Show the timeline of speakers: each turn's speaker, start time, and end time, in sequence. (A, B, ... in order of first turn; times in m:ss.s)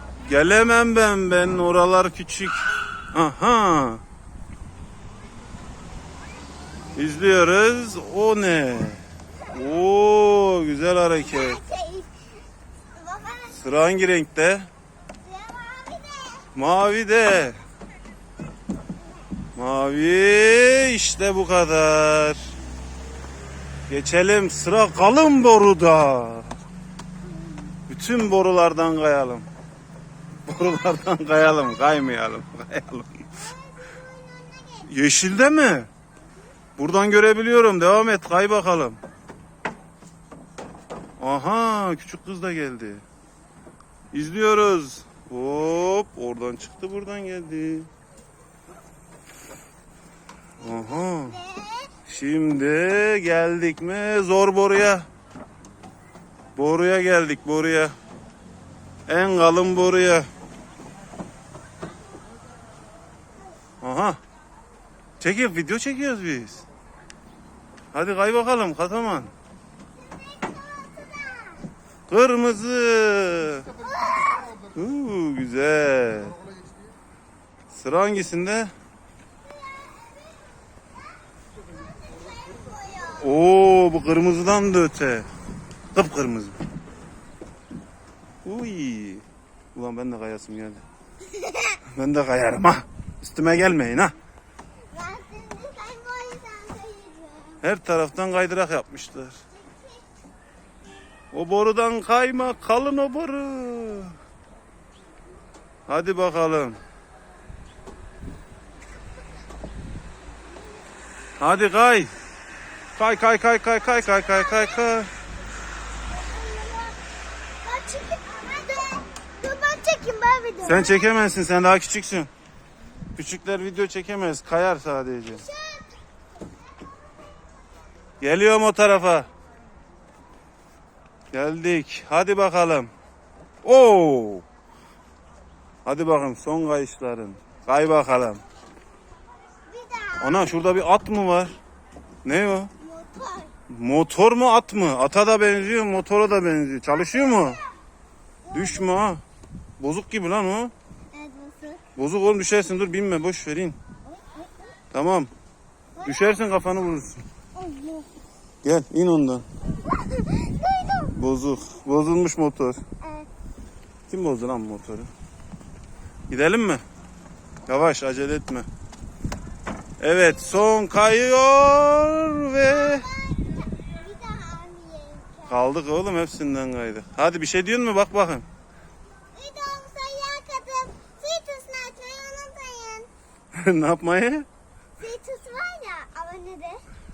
0:00.3-0:04.0 A
0:07.0-0:11.6 A
0:11.2-0:12.1 B
0:12.9-0:13.7 B
0:13.6-0:14.7 A
0:15.2-0:16.5 B
0:16.5-0:17.6 A
0:19.6-0:22.5 A
0:23.9-0:26.6 A
0:27.9-0:29.5 A
0:30.5-0:33.3 A
0:33.4-0:34.9 B
0:34.9-0:35.9 A
0:36.8-0:39.0 A
0:41.2-0:43.0 A
0:44.1-0:47.9 A
0:50.6-0:51.4 A
0:51.3-0:51.9 B
0:52.0-0:55.1 A
0:56.6-0:57.9 A
0:59.1-1:00.3 A
1:03.8-1:04.2 A
1:05.2-1:06.6 A
1:07.9-1:09.3 A
1:10.0-1:11.7 B
1:12.1-1:13.7 A
1:13.8-1:14.6 B
1:14.7-1:16.4 A
1:17.7-1:18.7 A
1:19.5-1:20.5 B
1:21.8-1:23.3 B
1:23.2-1:25.3 A
1:25.9-1:26.6 A
1:28.4-1:29.2 A
1:29.8-1:30.8 A
1:31.3-1:31.8 B
1:31.9-1:34.1 A
1:34.9-1:37.6 B
1:37.6-1:39.4 A
1:39.6-1:40.0 B
1:41.3-1:44.2 A
1:45.9-1:46.8 A
1:51.4-1:52.1 A
1:53.0-1:55.1 A
1:54.2-1:54.8 B
1:56.1-1:57.0 B
1:57.6-2:01.2 B
2:00.6-2:02.3 A
2:03.2-2:05.4 A
2:05.4-2:05.9 B
2:08.2-2:09.3 A
2:11.3-2:12.9 A
2:13.6-2:14.4 A
2:15.8-2:18.4 A
2:19.7-2:20.6 B
2:20.2-2:21.6 A
2:22.2-2:22.7 A
2:22.8-2:23.5 B
2:23.7-2:27.6 A
2:28.4-2:28.9 B
2:28.5-2:29.2 A
2:29.8-2:30.7 A
2:31.1-2:31.8 B
2:32.0-2:33.8 A
2:34.9-2:35.3 A
2:36.0-2:36.3 B
2:36.0-2:37.2 A
2:37.6-2:38.1 B
2:38.6-2:39.4 A
2:39.9-2:41.2 B
2:41.1-2:42.8 A
2:43.0-2:43.3 B
2:44.1-2:45.1 A
2:46.3-2:46.8 A
2:47.7-2:48.7 A
2:50.0-2:53.1 A
2:52.6-2:55.6 B
2:55.5-2:58.4 A
2:59.3-3:03.1 B
3:03.5-3:04.5 A
3:05.0-3:06.8 B